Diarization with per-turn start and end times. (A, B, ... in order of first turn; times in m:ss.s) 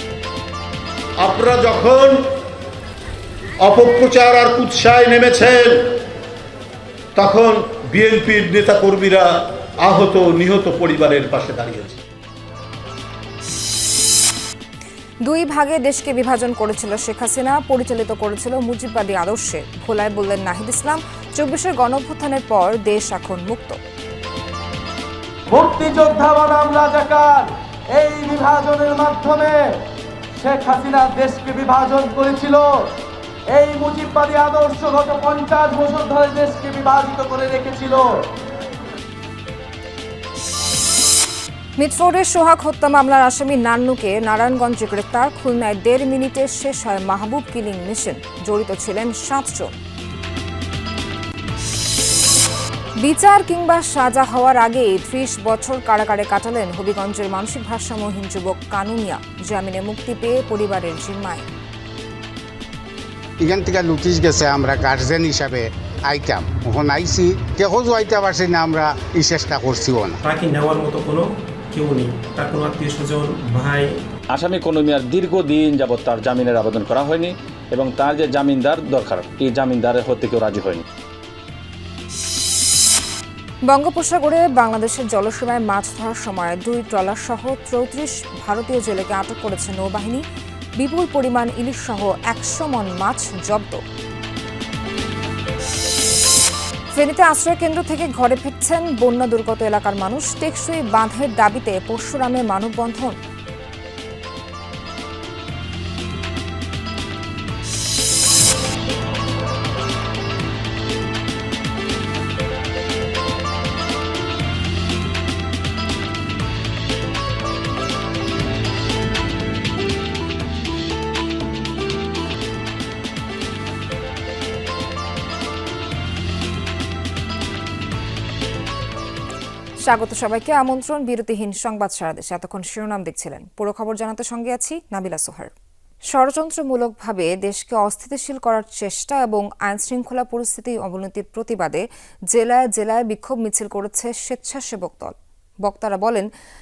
0:01.2-0:02.2 A
0:03.6-0:05.8 A
0:07.2-0:12.0 A
0:15.2-0:23.8 B
0:25.5-0:29.6 C
0:30.4-0:32.7 C
0:33.5-0:38.0 C
0:41.8-0:49.8 B
0:53.0-1:01.5 B
1:03.4-1:10.2 D
1:10.2-1:13.9 E
1:14.3-1:20.8 F
1:23.7-1:30.2 B
1:30.8-1:33.8 B
1:37.0-1:43.2 B
2:09.8-2:15.5 B
2:16.1-2:26.3 B